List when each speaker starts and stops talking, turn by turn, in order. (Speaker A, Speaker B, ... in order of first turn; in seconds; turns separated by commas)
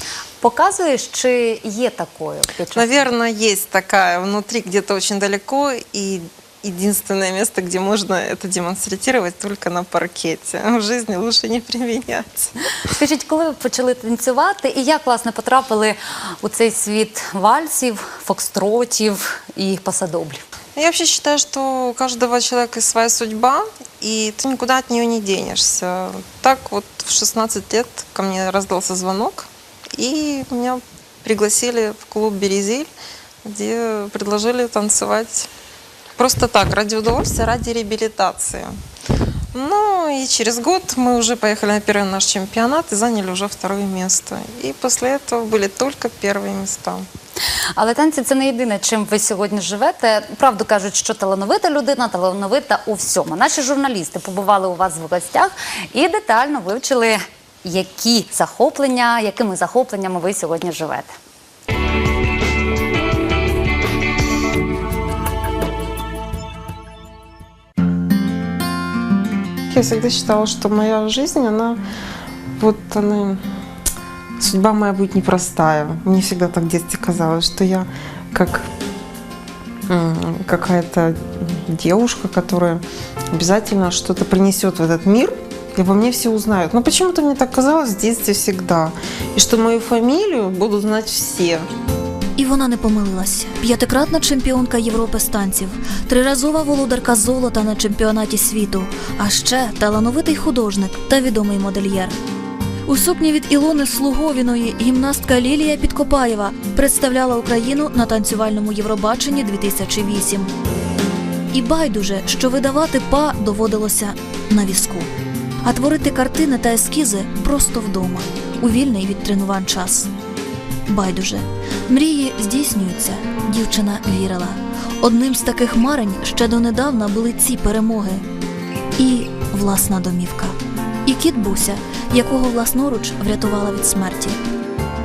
Speaker A: 0.4-3.1, Speaker B: 2.7-12.5, Speaker A: 12.9-20.4, Speaker B: 20.8-32.9, Speaker B: 33.4-35.5, Speaker B: 36.2-38.7, Speaker B: 39.5-47.1, Speaker A: 47.8-61.1, Speaker C: 69.7-71.8, Speaker C: 72.6-73.4, Speaker C: 74.4-78.7, Speaker C: 79.9-91.7, Speaker D: 92.4-102.1, Speaker D: 102.9-110.5, Speaker D: 111.5-115.1, Speaker D: 115.6-120.1, Speaker D: 120.9-128.2, Speaker D: 129.0-134.4